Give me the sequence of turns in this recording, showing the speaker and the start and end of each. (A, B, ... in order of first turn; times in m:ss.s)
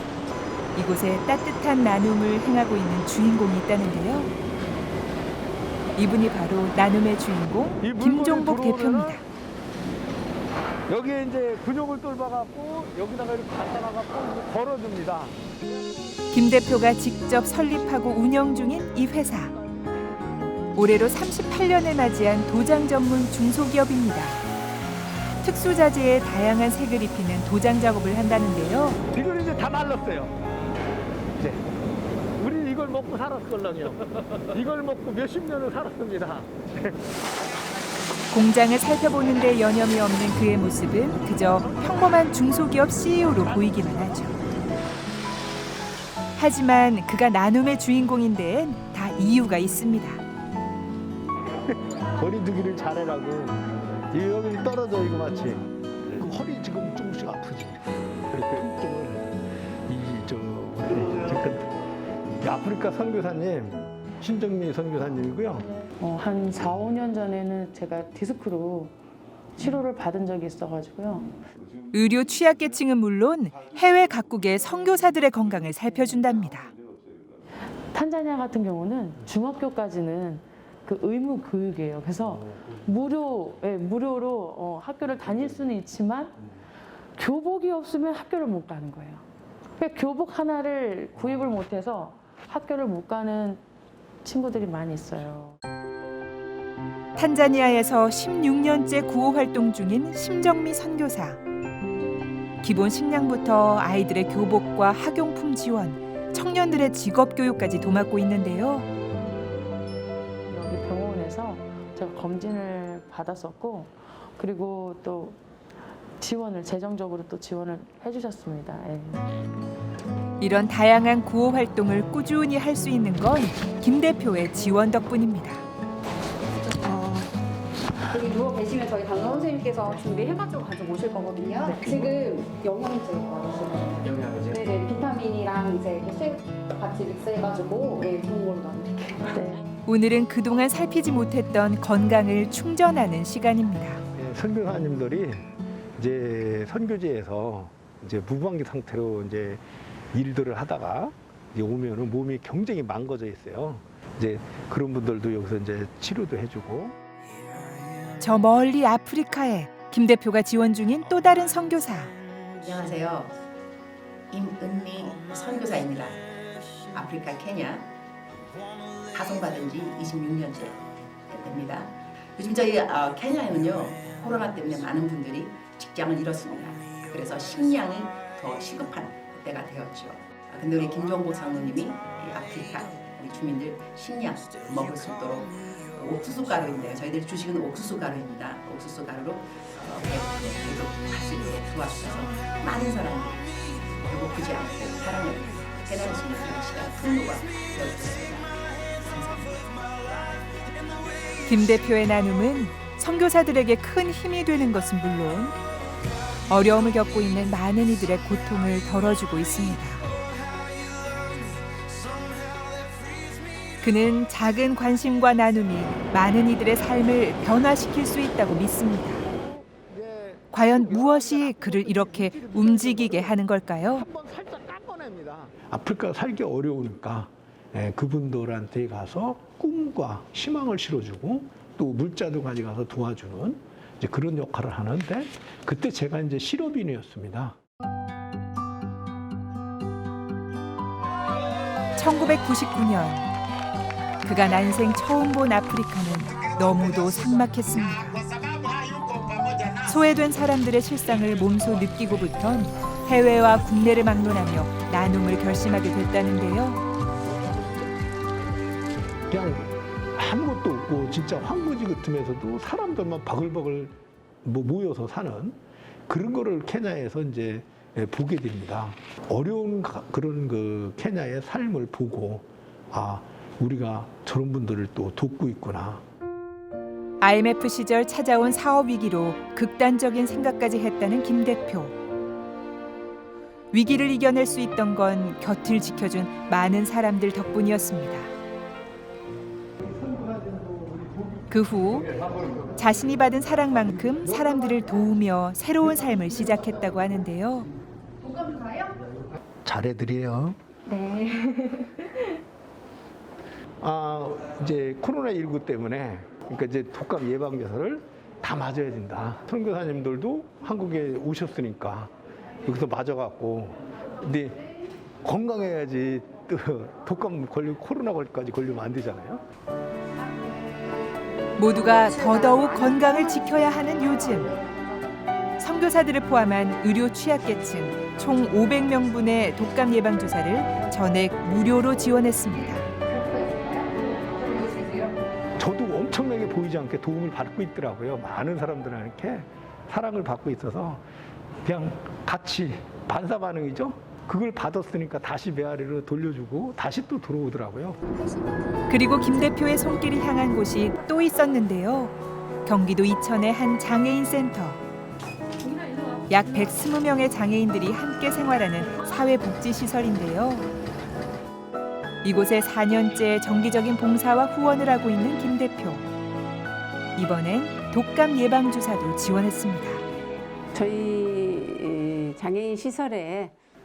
0:00.8-0:04.3 A
0:06.0-0:09.2 A
0:07.8-0:09.2 B
0:10.9-0:15.4 B
0:16.3-0:19.5 A
0:20.8-0:24.4 A
0:25.4-0:29.0 A
0:29.1-0:30.4 B
0:31.4-0:31.6 B
0:32.4-0:37.0 B
0:38.3-0:44.4 A
0:46.4-0:50.2 A
0:51.7-0:59.4 B
0:59.9-1:01.7 B
1:02.4-1:05.7 B
1:05.9-1:08.9 C
1:09.6-1:11.3 C
1:11.9-1:16.7 A
1:17.9-1:26.3 C
1:27.2-1:29.2 C
1:29.8-1:33.6 C
1:34.2-1:35.6 C
1:37.2-1:41.4 A
1:42.6-1:48.9 A
1:50.5-1:55.4 C
1:56.2-1:59.2 C
2:00.4-2:05.6 A
2:06.8-2:07.2 D
2:08.0-2:19.4 D
2:19.8-2:24.0 A
2:24.1-2:36.9 B
2:38.2-2:42.1 A
2:42.6-2:43.3 E
2:44.3-2:46.2 E
2:46.9-2:47.9 E
2:49.1-3:13.5 E
3:14.0-3:19.8 E
3:21.4-3:25.6 A
3:26.5-3:30.0 A
3:33.8-3:39.2 A
3:39.3-3:43.4 B
3:40.5-3:44.0 A
3:43.9-3:57.6 B
4:02.0-4:03.3 A
4:04.2-4:08.2 A
4:09.7-4:16.8 A
4:19.3-4:25.6 B
4:26.1-4:36.0 B
4:37.2-4:41.9 A
4:43.7-4:48.3 A
4:50.1-4:51.1 B
4:51.5-4:52.1 A
4:52.8-4:57.7 A
4:59.6-5:00.6 B
5:03.8-5:12.1 B
5:12.6-5:14.6 B
5:15.2-5:19.4 B
5:21.6-5:24.5 A
5:25.6-5:32.8 A
5:33.1-5:35.2 D
5:35.6-5:41.0 B
5:41.6-5:48.0 B
5:48.9-5:52.1 A
5:52.6-5:54.8 A
5:56.3-6:00.7 A
6:02.2-6:06.1 A
6:07.2-6:10.0 A
6:10.7-6:13.6 F